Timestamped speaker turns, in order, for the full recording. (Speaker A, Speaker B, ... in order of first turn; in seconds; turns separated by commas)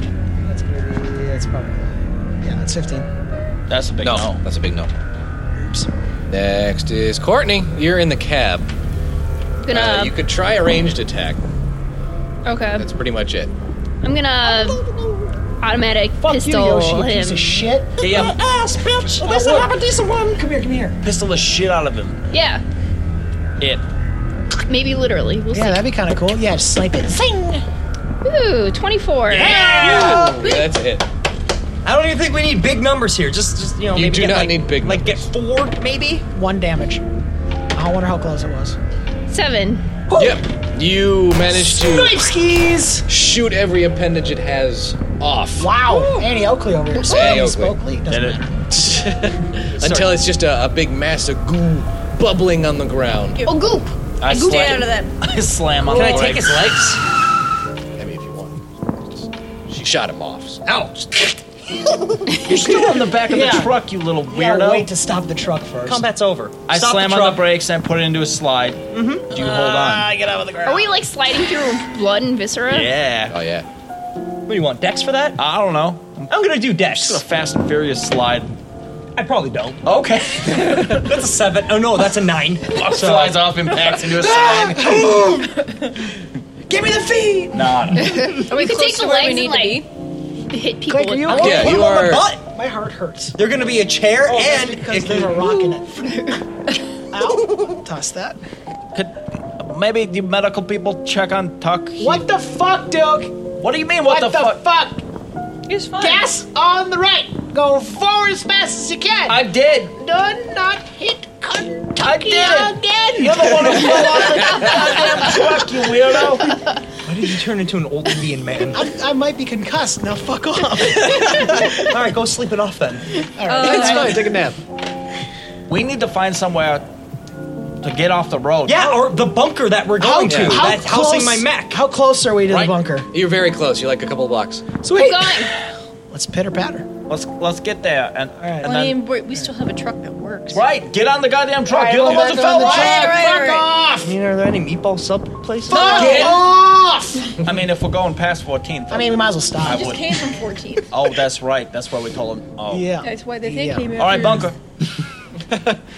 Speaker A: 0.4-3.1, Speaker B: 3.7-4.4, Speaker C: 4.0-4.9, Speaker A: 5.6-5.9, Speaker C: 6.3-8.7, Speaker D: 9.6-10.1, Speaker C: 9.7-11.4, Speaker D: 12.4-12.8, Speaker C: 12.8-13.5, Speaker D: 14.0-14.8, Speaker D: 15.6-17.6, Speaker A: 16.2-18.3, Speaker B: 18.0-19.7, Speaker E: 18.0-18.3, Speaker A: 19.2-21.0, Speaker B: 21.0-22.3, Speaker D: 22.3-22.6, Speaker B: 23.6-23.8, Speaker D: 24.7-25.8, Speaker A: 25.5-27.6, Speaker D: 28.2-29.7, Speaker B: 29.3-30.3, Speaker A: 29.4-30.5, Speaker E: 29.4-30.3, Speaker C: 29.8-31.1, Speaker F: 30.4-30.7, Speaker E: 31.8-36.2, Speaker C: 33.9-35.2, Speaker A: 36.3-37.0, Speaker A: 37.7-38.8, Speaker D: 39.3-39.9, Speaker C: 40.1-42.3, Speaker A: 41.5-43.1, Speaker C: 43.1-45.7, Speaker A: 45.6-48.6, Speaker F: 45.9-46.2, Speaker C: 47.0-47.8, Speaker B: 48.1-48.4, Speaker C: 48.7-53.4, Speaker E: 49.8-50.2, Speaker F: 53.4-53.7, Speaker D: 53.4-53.9, Speaker B: 54.2-56.8, Speaker F: 54.2-55.1, Speaker E: 55.8-57.0, Speaker C: 58.0-60.6, Speaker E: 60.6-62.3, Speaker B: 62.4-64.9, Speaker A: 62.4-66.0, Speaker E: 65.8-67.4, Speaker B: 66.7-70.1, Speaker E: 68.9-69.3, Speaker A: 69.6-70.9, Speaker D: 70.6-72.9, Speaker B: 72.7-73.4, Speaker C: 73.3-73.7, Speaker E: 74.5-75.4, Speaker B: 75.4-78.5, Speaker E: 76.3-77.2, Speaker E: 79.2-79.8, Speaker B: 79.8-81.0, Speaker E: 80.4-83.5, Speaker B: 82.7-85.2, Speaker A: 84.1-86.0, Speaker A: 86.7-88.3, Speaker B: 87.5-88.3, Speaker D: 88.1-89.8, Speaker F: 88.3-89.9, Speaker D: 90.5-91.7, Speaker A: 90.9-93.4, Speaker C: 91.3-92.3, Speaker E: 91.3-92.4, Speaker E: 93.4-95.6, Speaker A: 94.2-96.4, Speaker A: 97.1-98.4, Speaker B: 98.9-102.2, Speaker A: 102.0-103.4, Speaker B: 103.6-104.6, Speaker A: 104.0-105.0, Speaker F: 105.7-106.3, Speaker A: 106.0-116.6, Speaker B: 109.3-109.9, Speaker B: 112.0-116.6, Speaker E: 117.0-118.9, Speaker A: 118.7-121.8, Speaker E: 121.2-123.2, Speaker A: 123.3-124.3, Speaker F: 123.4-124.3, Speaker C: 123.6-124.6, Speaker B: 125.7-126.8, Speaker B: 127.8-128.9, Speaker E: 128.6-131.8, Speaker A: 130.0-133.1, Speaker C: 130.2-130.7, Speaker C: 133.1-134.6, Speaker A: 134.8-135.5, Speaker D: 134.9-135.5, Speaker A: 136.1-136.9, Speaker B: 137.1-139.0, Speaker A: 138.4-138.8, Speaker F: 138.6-140.7, Speaker B: 140.5-143.1, Speaker A: 141.7-144.1, Speaker F: 142.3-143.7, Speaker E: 144.0-146.3, Speaker A: 145.7-147.3, Speaker F: 145.7-146.4, Speaker B: 145.8-146.4, Speaker B: 147.4-150.1, Speaker A: 148.9-150.0, Speaker F: 149.6-150.9, Speaker B: 150.9-152.9, Speaker A: 152.7-154.4, Speaker F: 153.0-154.5, Speaker B: 153.9-154.6, Speaker C: 155.5-155.8